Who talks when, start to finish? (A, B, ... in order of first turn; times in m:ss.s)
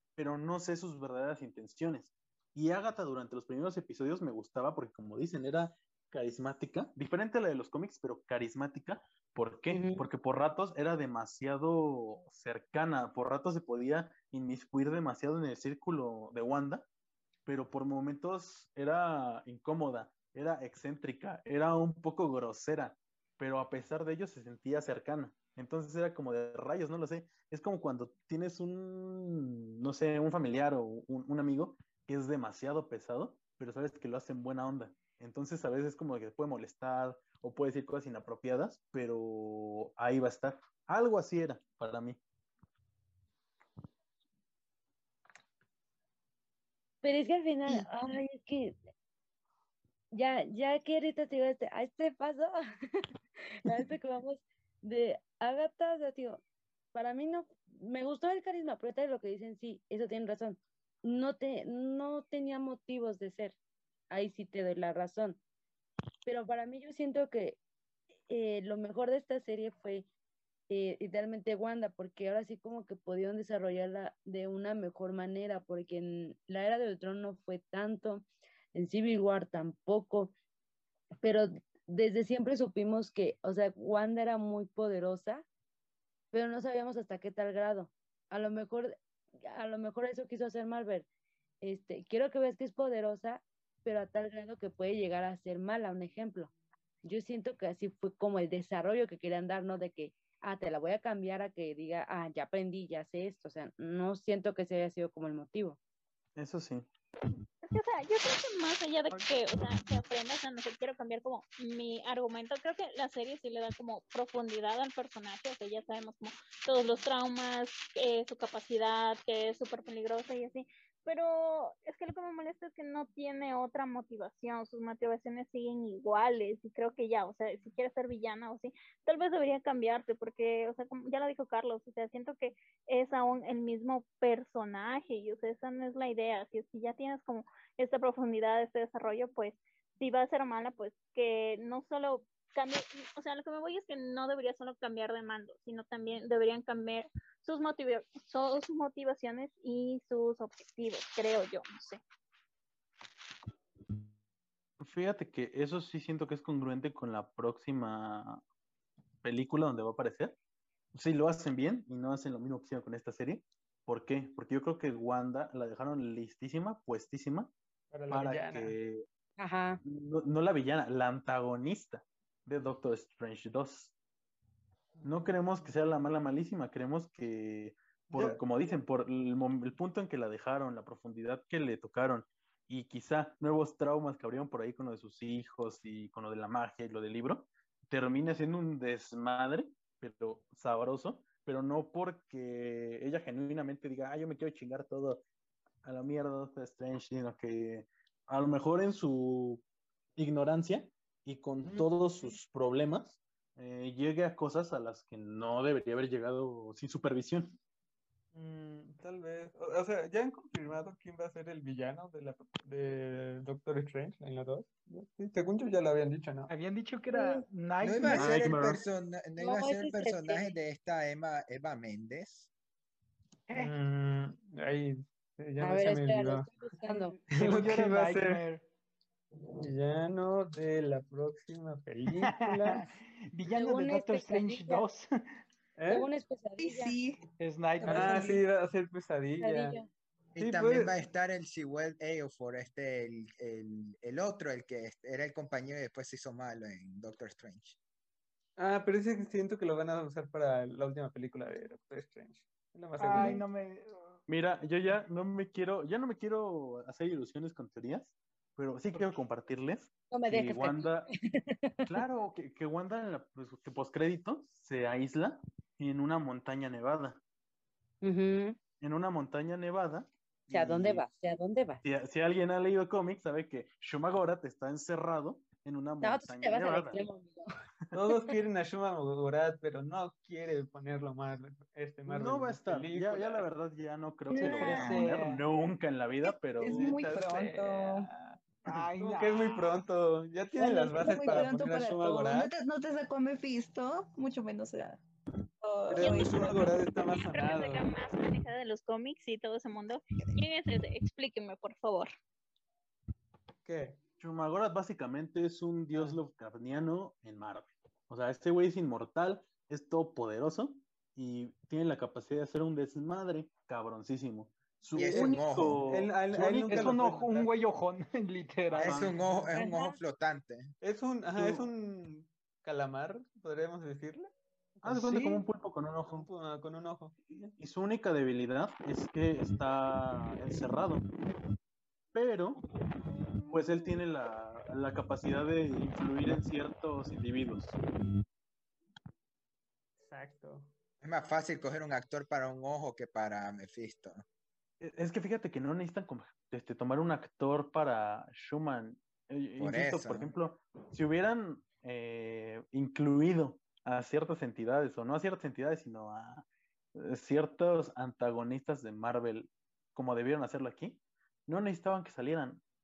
0:00.2-0:16.9 A
0:09.7-0:10.0 B
0:17.4-0:42.2 A
0:47.0-0:48.8 B
0:50.1-0:53.0 B
0:53.6-0:56.4 B
0:56.9-1:03.6 B
1:04.1-1:05.4 B
1:06.2-1:07.6 B
1:08.3-1:10.1 B
1:10.7-1:20.3 B
1:21.2-1:25.4 B
1:26.3-1:31.1 B
1:31.6-1:36.5 B
1:37.0-1:45.8 B
1:46.4-1:46.9 A
1:47.7-2:32.0 C
2:34.8-2:38.4 A
2:39.2-2:40.3 A
2:40.9-2:47.5 A
2:47.9-2:48.8 D
2:48.1-2:49.0 A
2:49.4-2:49.8 B
2:49.8-2:53.9 A
2:55.0-3:15.2 A
2:58.1-2:58.4 D
3:15.8-3:19.6 A
3:20.2-3:27.5 A
3:28.3-3:36.5 D
3:36.5-3:38.6 E
3:37.1-3:37.4 B
3:37.8-3:42.5 F
3:38.0-3:38.8 A
3:39.4-3:40.5 B
3:43.5-3:43.8 E
3:43.6-3:46.5 D
3:45.6-3:47.2 B
3:46.8-3:48.6 E
3:47.3-3:48.4 D
3:49.5-3:52.9 D
3:52.1-3:55.3 E
3:53.5-3:54.8 B
3:55.8-3:56.1 D
3:55.9-3:56.9 B
3:56.6-3:57.2 G
3:57.4-3:58.3 E
3:57.8-3:58.3 B
3:57.9-3:59.8 D
3:59.4-3:59.9 B
4:00.4-4:07.8 F
4:00.4-4:00.9 D
4:08.6-4:13.4 D
4:13.0-4:14.2 E
4:14.3-4:21.1 A
4:20.1-4:21.9 B
4:21.9-4:27.2 A
4:28.0-4:28.6 B
4:28.8-4:31.0 A
4:30.5-4:31.8 B
4:31.8-4:37.0 A
4:36.0-4:37.4 B
4:37.9-4:43.4 D
4:42.1-4:46.9 A
4:44.4-4:45.5 E
4:44.4-4:44.9 G
4:46.2-4:48.1 G
4:46.6-4:52.5 D
4:48.6-4:49.8 E
4:50.6-4:55.0 G
4:55.6-4:56.8 G
4:55.9-4:57.9 D
4:56.0-5:02.1 C
5:00.1-5:00.4 G
5:03.6-5:04.0 D
5:04.2-5:16.9 A
5:05.9-5:06.2 D
5:14.9-5:15.8 F
5:15.0-5:17.5 D
5:16.3-5:19.1 E
5:18.7-5:19.2 A
5:18.8-5:20.7 F
5:19.5-5:20.0 B
5:20.8-5:24.9 D
5:24.8-5:26.3 A
5:24.9-5:25.4 E
5:26.1-5:27.2 D
5:27.6-5:31.0 A
5:32.1-5:32.6 A
5:33.5-5:37.7 A
5:40.0-5:40.7 D
5:41.0-5:44.2 F
5:44.8-6:02.6 A
5:49.6-5:50.3 F